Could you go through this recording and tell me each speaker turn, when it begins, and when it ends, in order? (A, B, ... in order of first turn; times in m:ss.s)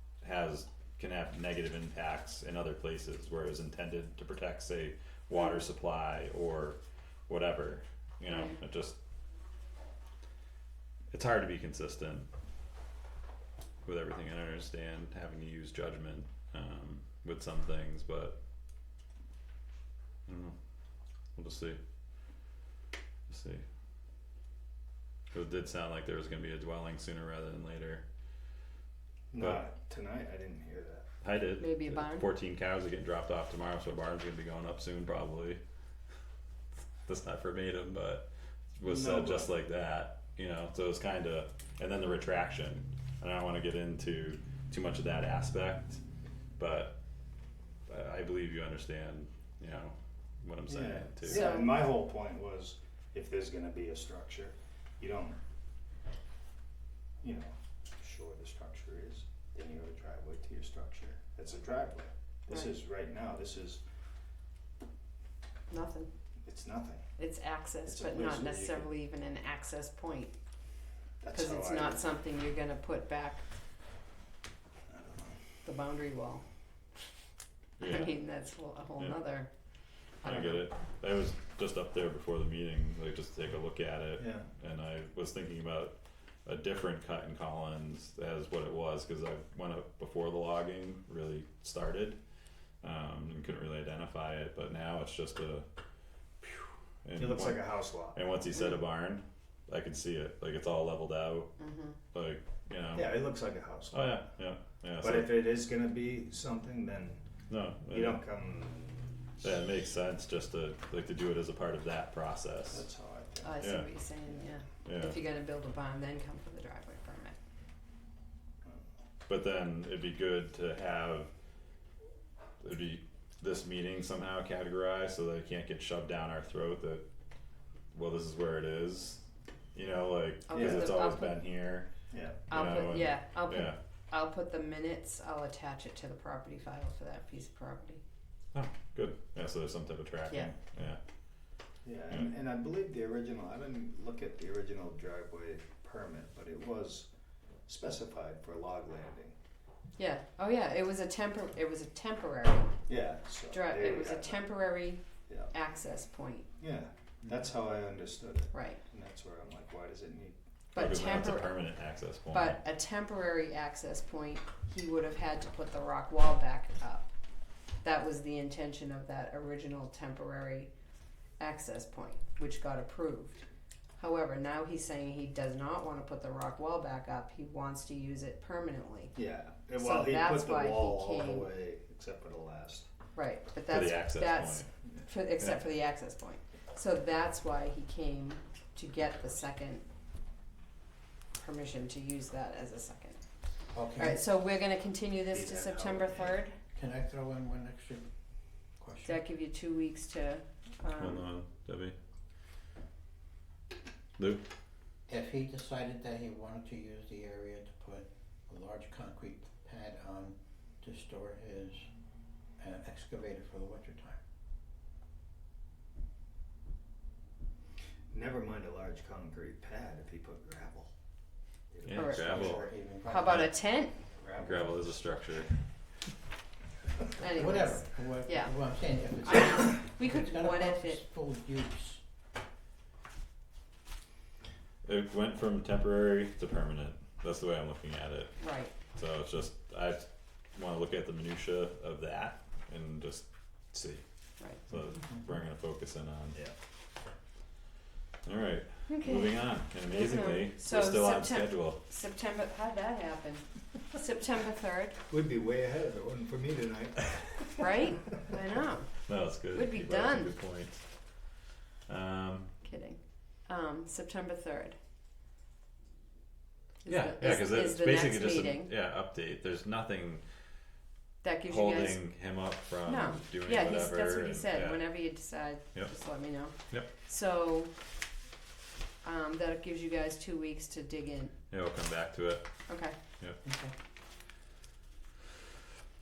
0:00.2-0:09.0 A
0:11.1-0:12.3 A
0:13.8-0:18.4 A
0:20.3-0:20.6 A
0:21.4-0:21.8 A
0:23.3-0:23.6 A
0:25.3-0:28.0 A
0:29.3-0:31.0 B
0:31.2-0:35.6 A
0:31.6-0:32.3 C
0:37.0-0:46.0 A
0:38.8-0:39.5 B
0:46.6-0:47.0 A
0:47.9-0:51.5 A
0:50.7-0:55.4 B
0:51.2-0:51.8 C
0:57.2-1:03.8 B
1:05.7-1:06.1 C
1:06.4-1:07.0 B
1:07.2-1:10.3 C
1:07.8-1:08.9 B
1:11.2-1:12.0 B
1:11.3-1:13.4 C
1:14.9-1:15.4 B
1:15.6-1:16.4 C
1:17.8-1:18.2 A
1:17.8-1:19.5 C
1:20.2-1:20.6 C
1:20.2-1:32.2 A
1:24.2-1:24.5 B
1:32.8-1:35.6 A
1:36.4-1:41.6 A
1:37.2-1:38.2 B
1:41.6-1:42.0 C
1:42.1-1:43.2 A
1:42.9-1:44.3 B
1:43.9-1:45.4 A
1:45.0-1:47.2 B
1:47.5-1:48.2 A
1:47.9-1:49.2 B
1:49.4-1:52.8 A
1:52.7-1:53.6 B
1:53.4-1:57.4 C
1:53.6-1:53.9 A
1:54.8-1:55.2 A
1:59.3-2:01.3 A
2:02.6-2:07.0 A
2:07.9-2:09.2 A
2:09.7-2:11.9 A
2:10.5-2:11.4 C
2:10.5-2:10.9 B
2:12.1-2:12.4 B
2:12.5-2:18.0 C
2:12.5-2:13.8 A
2:18.5-2:21.0 A
2:21.8-2:27.1 B
2:27.7-2:29.4 B
2:30.0-2:32.7 C
2:32.9-2:34.5 B
2:33.5-2:36.5 C
2:35.3-2:35.5 B
2:36.6-2:40.4 B
2:38.5-2:38.8 C
2:40.7-2:41.6 C
2:40.7-2:42.6 A
2:42.3-2:47.1 C
2:47.8-2:50.7 C
2:51.4-2:53.4 C
2:54.0-2:59.1 C
2:59.1-3:02.9 B
2:59.8-3:01.5 C
3:03.1-3:09.8 C
3:03.7-3:04.7 A
3:05.4-3:05.6 A
3:11.4-3:13.2 C
3:13.7-3:14.2 D
3:14.0-3:16.6 C
3:15.3-3:16.4 B
3:16.7-3:18.0 D
3:18.8-3:19.2 D
3:19.0-3:21.2 C
3:21.0-3:21.9 A
3:24.2-3:24.4 A
3:25.1-3:31.8 D
3:32.6-3:34.2 D
3:38.1-3:40.9 B
3:41.7-3:42.4 B
3:41.8-3:42.6 A
3:41.9-3:44.0 C
3:42.0-3:43.6 D
3:43.2-3:43.6 A
3:44.2-3:44.9 B
3:44.4-3:45.5 A
3:47.2-3:48.5 C
3:47.2-3:52.0 D
3:49.2-3:51.0 C
3:54.8-3:58.4 A
3:58.4-3:58.7 C
3:58.9-4:04.0 A
4:04.7-4:06.4 A
4:08.2-4:11.8 A
4:08.9-4:15.0 C
4:15.1-4:17.6 B
4:17.6-4:18.9 C
4:19.1-4:20.8 A
4:19.5-4:20.3 C
4:21.9-4:22.5 A
4:22.6-4:24.8 C
4:26.8-4:28.7 C
4:26.8-4:30.2 A
4:31.2-4:32.0 C
4:31.5-4:34.9 A
4:32.8-4:37.7 C
4:39.0-4:41.3 C
4:41.5-4:42.5 A
4:42.7-4:43.7 C